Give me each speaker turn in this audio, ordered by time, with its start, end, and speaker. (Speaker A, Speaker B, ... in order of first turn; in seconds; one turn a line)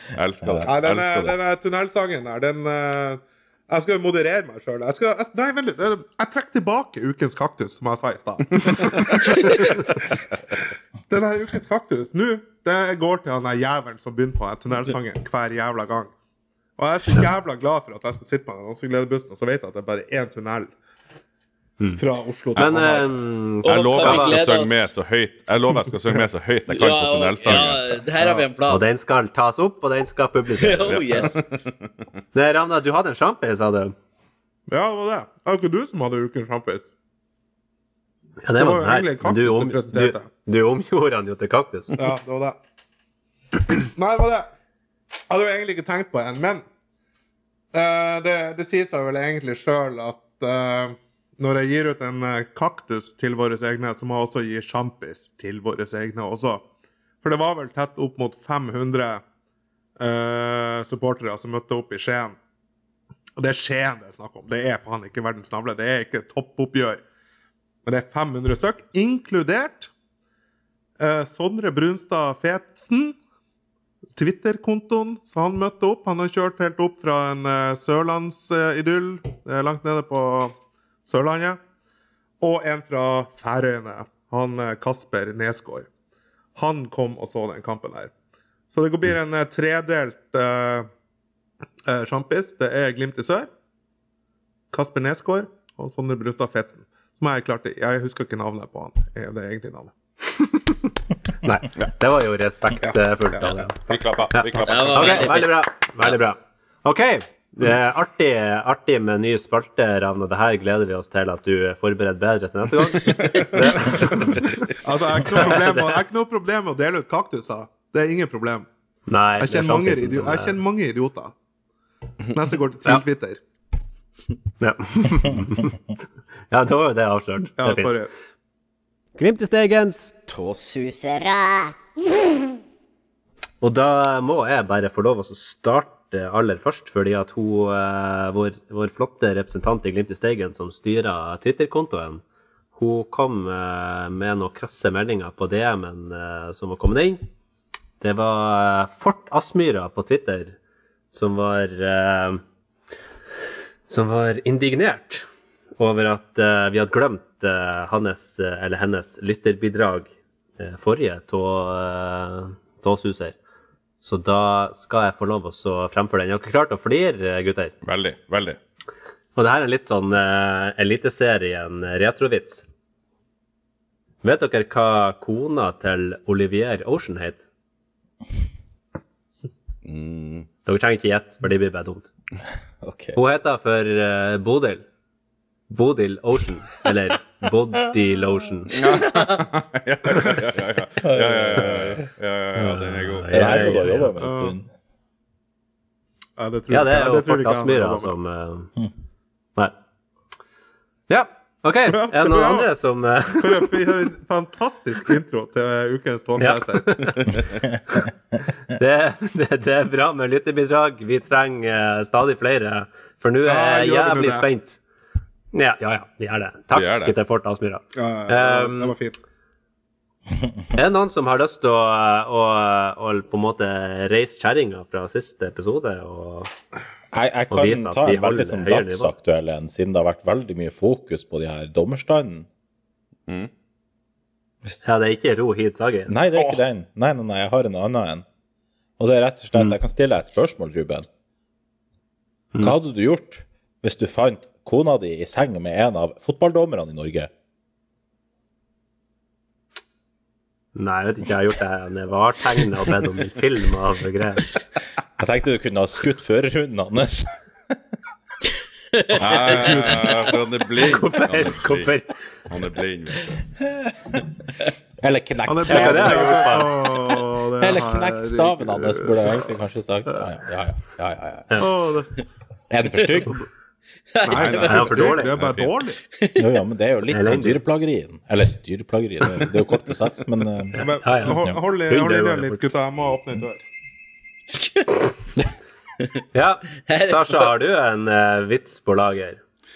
Speaker A: 0.1-1.3
Speaker B: 0.4-0.7
Speaker C: 0.6-16.1
Speaker C: 16.8-20.7
Speaker C: 21.9-23.2
Speaker D: 22.6-24.4
Speaker E: 23.6-24.9
Speaker A: 23.6-28.0
Speaker E: 26.7-28.8
Speaker C: 28.1-28.5
Speaker D: 28.7-31.0
Speaker E: 30.6-31.4
Speaker A: 30.9-31.7
Speaker D: 32.3-33.9
Speaker C: 34.7-36.9
Speaker D: 38.4-42.0
Speaker C: 38.5-40.3
Speaker C: 41.9-42.6
Speaker C: 43.8-44.5
Speaker C: 45.3-46.6
Speaker C: 47.7-56.6
Speaker C: 57.2-59.2
Speaker C: 60.0-62.4
Speaker C: 63.4-67.0
Speaker C: 67.8-69.9
Speaker C: 71.0-73.2
Speaker C: 74.2-80.5
Speaker C: 81.0-81.6
Speaker C: 82.4-85.9
Speaker C: 86.5-88.1
Speaker C: 88.7-90.9
Speaker C: 91.8-93.5
Speaker C: 94.7-99.9
Speaker D: 101.4-103.7
Speaker C: 102.8-103.7
Speaker A: 103.8-105.4
Speaker D: 104.3-114.7
Speaker E: 104.5-105.5
Speaker C: 113.2-118.7
Speaker D: 115.3-116.0
Speaker D: 119.1-120.6
Speaker C: 119.4-121.3
Speaker C: 122.3-123.4
Speaker D: 124.6-125.8
Speaker D: 126.5-128.0
Speaker C: 127.6-128.1
Speaker D: 129.2-131.6
Speaker D: 133.6-142.2
Speaker D: 142.7-147.2
Speaker D: 148.0-150.6
Speaker D: 151.1-152.4
Speaker D: 153.9-155.2
Speaker D: 155.8-163.3
Speaker D: 164.0-167.7
Speaker A: 167.8-168.6
Speaker D: 169.3-172.7
Speaker D: 174.2-177.4
Speaker A: 179.8-180.5
Speaker D: 180.7-182.1
Speaker B: 182.8-183.2
Speaker D: 183.1-184.8
Speaker D: 185.7-188.8
Speaker A: 188.7-193.5
Speaker B: 191.0-192.0
Speaker D: 192.6-194.1
Speaker B: 193.3-194.7
Speaker C: 194.2-194.5
Speaker C: 196.4-198.1
Speaker D: 196.7-198.7
Speaker D: 201.1-203.8
Speaker C: 201.9-202.7
Speaker C: 203.3-207.4
Speaker D: 206.4-207.4
Speaker D: 208.7-214.8
Speaker C: 213.4-214.4
Speaker D: 215.5-218.9
Speaker A: 216.7-217.1
Speaker C: 217.9-219.2
Speaker D: 220.7-226.5
Speaker B: 227.1-232.5
Speaker D: 227.5-229.1
Speaker D: 234.8-236.1
Speaker B: 236.1-238.2
Speaker B: 239.0-241.1
Speaker B: 242.6-247.3
Speaker D: 250.8-254.6
Speaker B: 255.2-257.8
Speaker E: 258.9-260.1
Speaker A: 259.2-261.9
Speaker D: 259.6-260.0
Speaker D: 260.8-262.2
Speaker A: 262.4-263.4
Speaker B: 263.6-264.2
Speaker B: 265.0-266.7
Speaker C: 265.4-269.4
Speaker D: 265.6-267.1
Speaker B: 267.6-271.6
Speaker C: 271.5-272.3
Speaker B: 272.7-273.4
Speaker E: 274.1-275.2
Speaker C: 274.2-276.0
Speaker A: 274.3-274.7
Speaker D: 274.4-275.4
Speaker A: 275.3-275.7
Speaker E: 276.1-276.4
Speaker B: 276.4-281.6
Speaker D: 277.1-277.6
Speaker C: 280.8-283.6
Speaker D: 280.8-282.6
Speaker E: 284.5-286.2
Speaker D: 286.3-289.4
Speaker E: 286.9-287.5